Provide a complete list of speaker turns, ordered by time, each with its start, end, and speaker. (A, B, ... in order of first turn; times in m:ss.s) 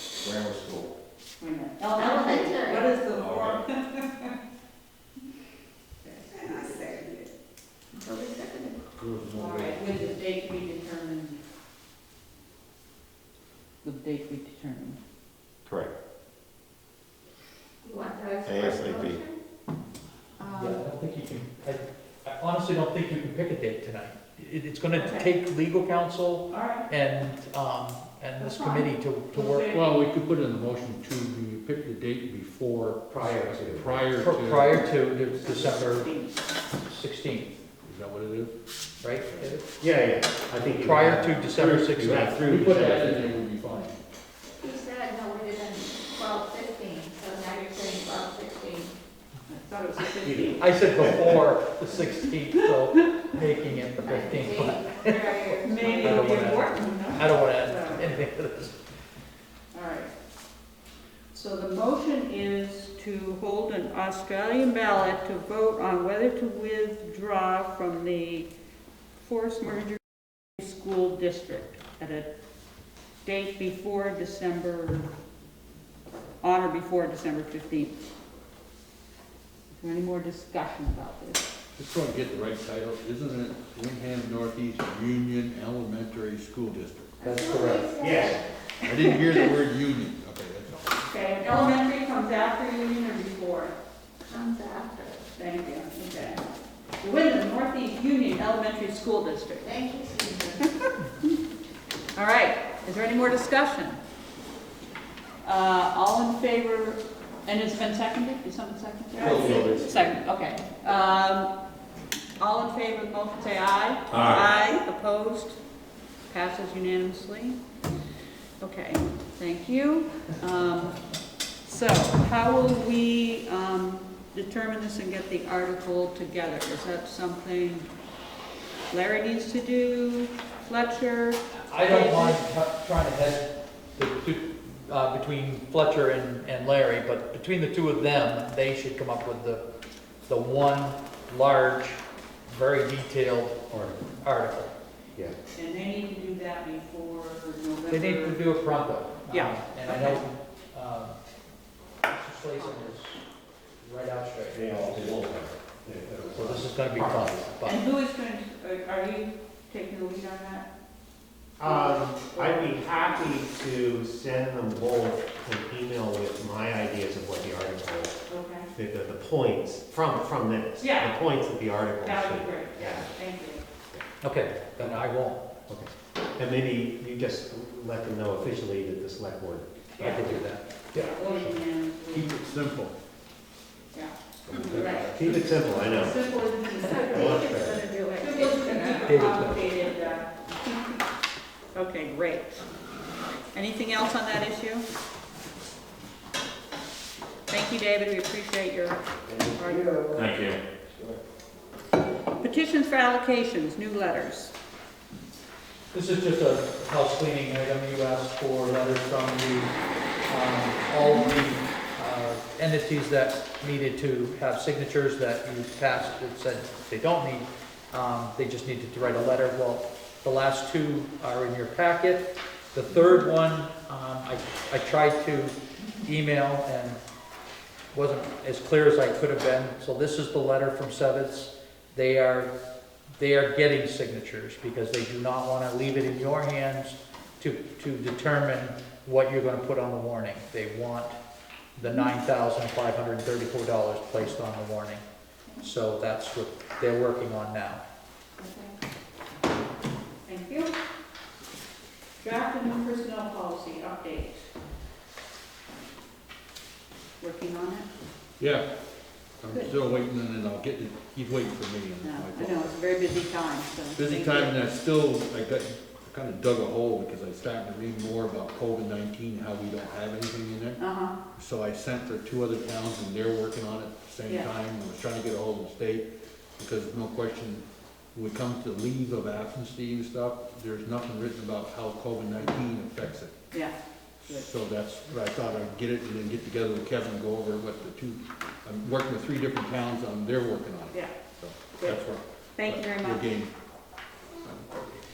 0:00.2-0:00.9 A
0:01.4-0:04.4 B
0:02.0-0:02.9 C
0:03.1-0:03.6 A
0:06.0-0:06.8 B
0:06.3-0:07.3 C
0:07.9-0:08.8 C
0:09.0-0:09.9 D
0:09.3-0:11.4 B
0:13.8-0:15.0 B
0:15.7-0:15.9 A
0:17.8-0:19.4 C
0:18.5-0:19.2 A
0:20.4-0:21.0 B
0:20.6-0:29.7 E
0:24.9-0:25.3 B
0:26.5-0:26.9 B
0:28.4-0:29.9 B
0:29.7-0:34.8 D
0:33.1-0:34.0 F
0:34.2-0:36.1 E
0:34.7-0:36.4 B
0:36.9-0:37.5 E
0:37.8-0:38.5 D
0:39.0-0:39.6 E
0:39.8-0:43.3 F
0:40.6-0:42.4 E
0:42.4-0:44.0 D
0:44.6-0:49.0 C
0:49.5-0:51.4 B
0:50.2-0:51.2 F
0:50.6-0:55.4 E
0:52.2-0:53.3 B
0:54.0-0:56.0 C
0:55.5-0:58.2 B
0:56.0-0:58.8 E
0:59.7-1:00.1 B
1:01.3-1:08.5 B
1:09.2-1:10.0 B
1:10.6-1:12.3 B
1:13.2-1:15.1 B
1:16.4-1:18.0 B
1:19.7-1:21.5 B
1:21.8-1:27.1 D
1:27.2-1:28.4 C
1:27.2-1:27.9 E
1:28.0-1:28.4 F
1:28.8-1:31.0 D
1:31.0-1:33.8 B
1:34.2-1:35.2 C
1:35.4-1:36.4 B
1:37.0-1:39.8 B
1:39.6-1:40.6 C
1:40.6-1:41.4 B
1:42.1-1:44.0 B
1:45.4-1:51.5 B
1:49.2-1:49.8 D
1:49.2-1:49.9 A
1:49.4-1:49.7 F
1:52.4-1:55.6 B
1:54.1-1:54.4 A
1:56.3-1:57.6 B
1:58.6-2:01.0 B
2:01.6-2:07.9 B
2:08.9-2:12.4 B
2:11.7-2:19.6 E
2:20.3-2:23.6 E
2:23.7-2:24.1 F
2:24.2-2:24.7 E
2:25.6-2:28.5 B
2:27.9-2:31.2 E
2:29.3-2:30.2 B
2:32.1-2:33.2 E
2:32.6-2:32.9 B
2:33.8-2:35.2 E
2:34.5-2:37.4 F
2:36.4-2:37.8 E
2:37.6-2:40.7 B
2:41.6-2:48.2 F
2:41.6-2:43.3 B
2:48.3-2:48.7 B
2:48.7-2:53.1 F
2:50.8-2:51.3 B
2:52.0-2:53.6 B
2:54.2-2:55.5 E
2:55.7-2:59.9 F
2:59.9-3:02.6 B
3:00.0-3:00.6 E
3:01.0-3:01.6 F
3:02.1-3:03.0 D
3:03.9-3:07.2 B
3:04.5-3:06.0 D
3:04.5-3:06.2 F
3:04.8-3:05.2 C
3:06.9-3:09.1 C
3:07.1-3:07.9 F
3:08.1-3:11.1 B
3:09.0-3:09.6 E
3:11.7-3:12.7 B
3:13.5-3:14.9 B
3:17.5-3:19.0 B
3:19.6-3:20.1 B
3:20.2-3:20.6 D
3:22.4-3:24.5 B
3:25.9-3:29.8 E
3:30.3-3:47.0 E
3:31.0-3:31.3 B
3:47.9-3:52.5 E
3:53.2-4:01.2 E
4:01.8-4:05.0 E
4:05.6-4:07.8 E
4:08.4-4:08.8 B
4:10.2-4:10.7 B
4:12.2-4:14.5 B
4:17.2-4:17.9 B
4:18.4-4:18.7 D
4:19.4-4:22.7 D
4:19.5-4:19.8 B
4:22.0-4:24.7 B
4:24.0-4:30.8 D
4:30.8-4:31.2 B
4:31.4-4:43.4 D
4:34.3-4:34.5 B
4:44.2-4:53.5 D
4:50.9-4:51.2 B
4:51.7-4:53.3 B